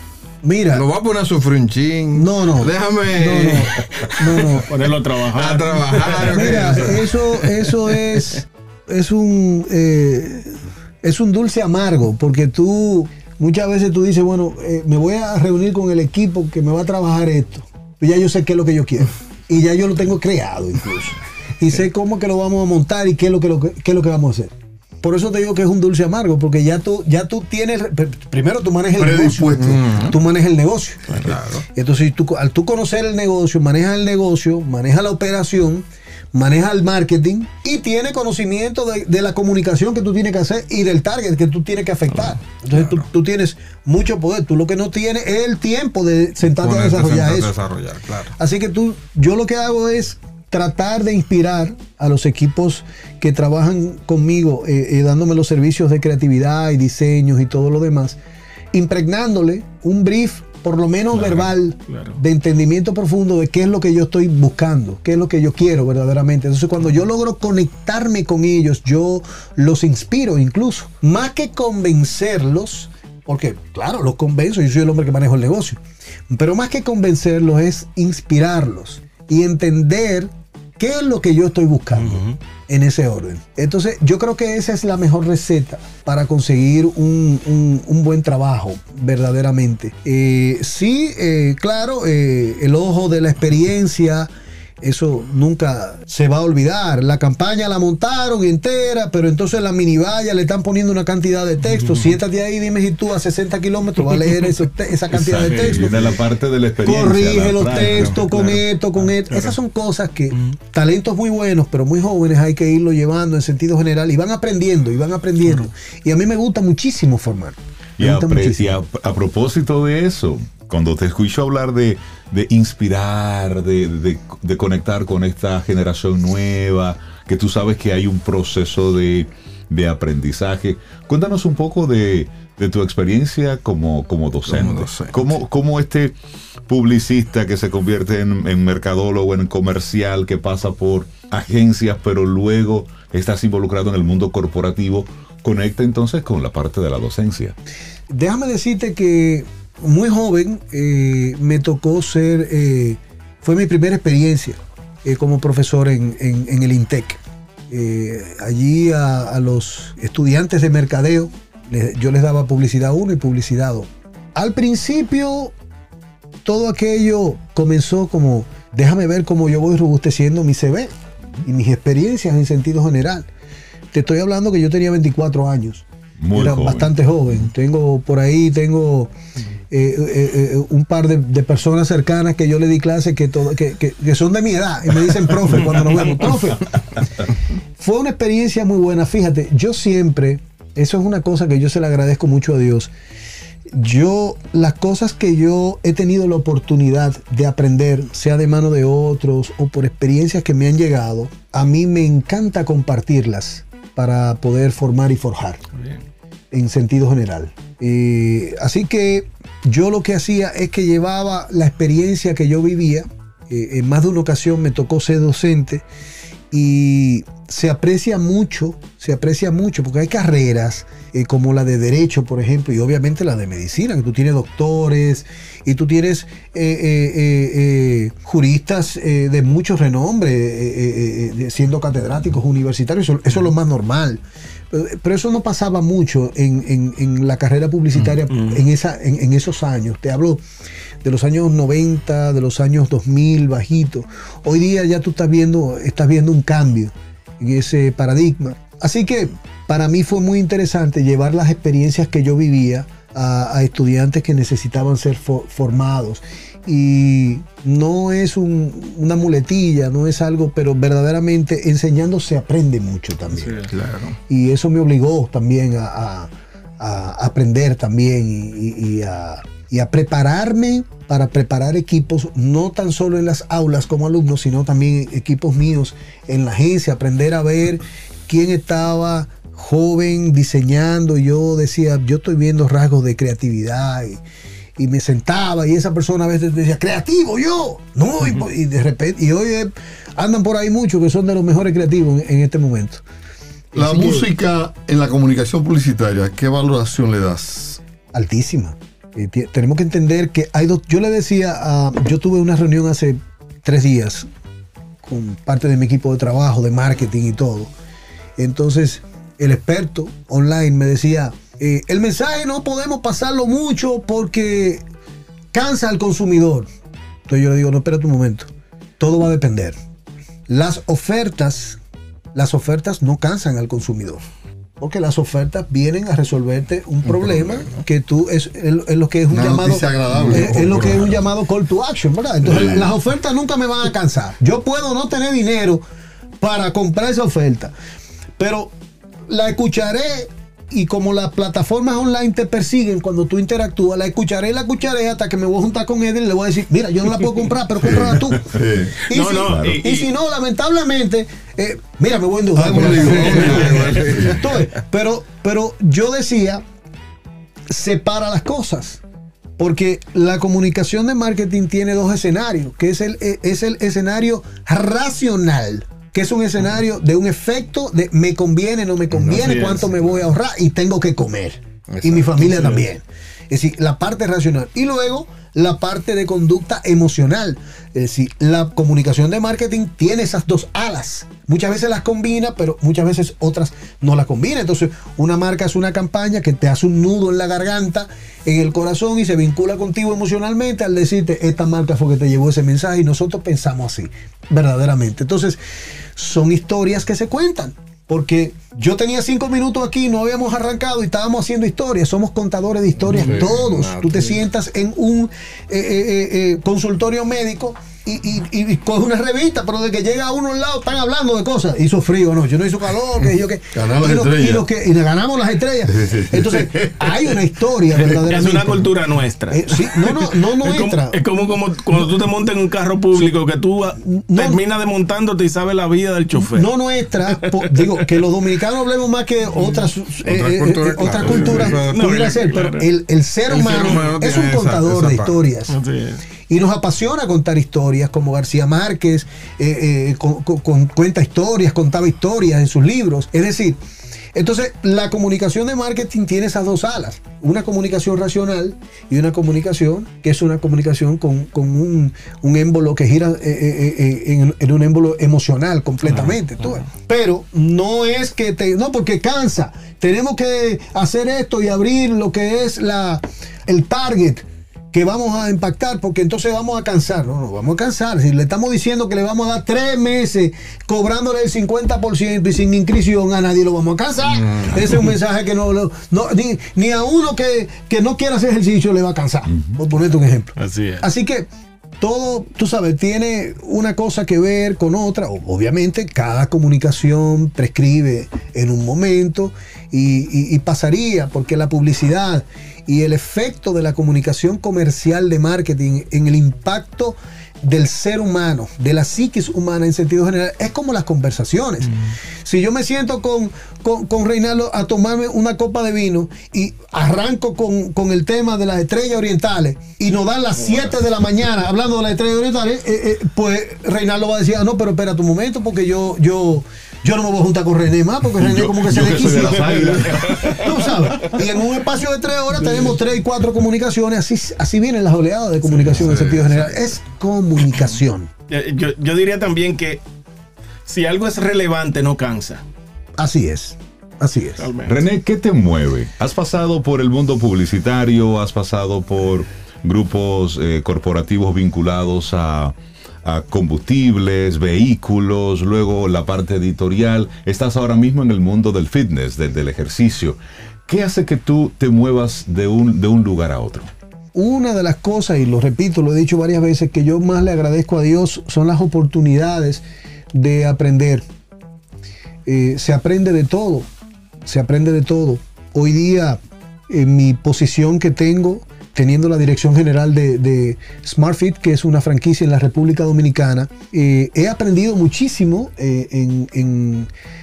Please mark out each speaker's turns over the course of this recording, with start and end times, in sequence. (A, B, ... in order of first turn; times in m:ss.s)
0:00.4-0:00.8 A
0:00.7-0:04.6 B
0:02.1-0:04.7 A
0:04.7-0:06.6 C
0:05.3-0:08.0 B
0:06.2-0:47.5 A
0:29.0-0:30.0 D
0:29.6-0:30.2 B
0:31.1-0:31.6 B
0:42.7-0:43.0 B
0:46.4-0:48.4 B
0:48.4-0:58.2 A
0:58.7-1:34.3 A
1:01.1-1:02.2 C
1:22.0-1:22.4 C
1:34.8-1:46.0 A
1:41.7-1:42.2 C
1:45.1-1:48.1 E
1:45.3-1:46.1 C
1:46.8-1:58.8 A
1:47.6-1:49.6 C
1:58.0-2:16.1 E
2:14.4-2:15.4 B
2:16.7-2:27.6 E
2:28.1-2:45.5 A
2:46.4-2:50.9 A
2:51.4-2:53.3 A
2:53.9-2:59.1 A
2:56.2-2:56.9 E
2:59.7-3:07.0 A
3:05.8-3:06.1 C
3:07.8-3:12.9 A
3:13.7-3:25.6 A
3:26.5-3:35.8 A
3:36.5-4:00.4 A
3:58.3-3:58.6 C
4:01.0-4:23.7 A
4:23.7-4:24.2 B
4:24.3-4:44.2 A
4:44.8-4:53.0 A
4:53.7-4:57.8 D
4:53.8-4:54.2 A
4:58.1-5:04.3 A
5:05.0-5:07.7 A
5:08.4-5:14.8 A
5:15.5-5:16.7 A
5:17.3-5:18.5 A
5:19.0-5:19.7 A
5:20.5-5:21.8 A
5:22.3-5:24.2 A
5:24.8-5:35.8 A
5:27.2-5:27.8 B
5:29.3-5:31.1 D
5:30.1-5:31.2 B
5:32.4-5:32.9 D
5:36.4-5:37.7 A
5:38.4-5:38.7 A
5:39.3-5:56.6 A
5:47.8-5:49.0 D
5:49.1-5:50.1 C
5:49.4-5:49.8 E
5:52.5-5:54.4 D
5:52.7-5:54.6 B
5:57.7-5:59.0 A
5:59.6-6:35.6 A
6:09.2-6:10.0 C
6:11.9-6:12.7 B
6:12.5-6:12.8 C
6:36.2-6:58.9 A
6:43.0-6:44.4 B
6:53.7-6:54.6 D
6:55.8-6:57.1 D
6:58.0-7:06.7 C
6:59.5-7:01.2 A
7:04.0-7:04.6 A
7:06.4-7:15.8 A
7:07.2-7:08.0 C
7:10.2-7:12.0 B
7:11.2-7:12.9 C
7:13.5-7:15.4 B
7:15.7-7:16.2 C
7:16.5-7:23.8 A
7:24.3-8:01.5 A
7:36.1-7:36.8 C
8:00.6-8:01.0 C
8:02.0-8:48.3 A
8:38.4-8:40.8 E
8:38.9-8:39.8 D
8:39.8-8:40.6 C
8:45.8-8:46.7 C
8:48.5-8:50.0 C
8:50.9-8:52.6 C
8:53.2-8:54.7 A
8:54.6-8:55.0 C
8:54.8-9:13.9 E
9:14.3-9:21.2 A
9:22.4-9:23.9 A
9:24.4-9:37.1 A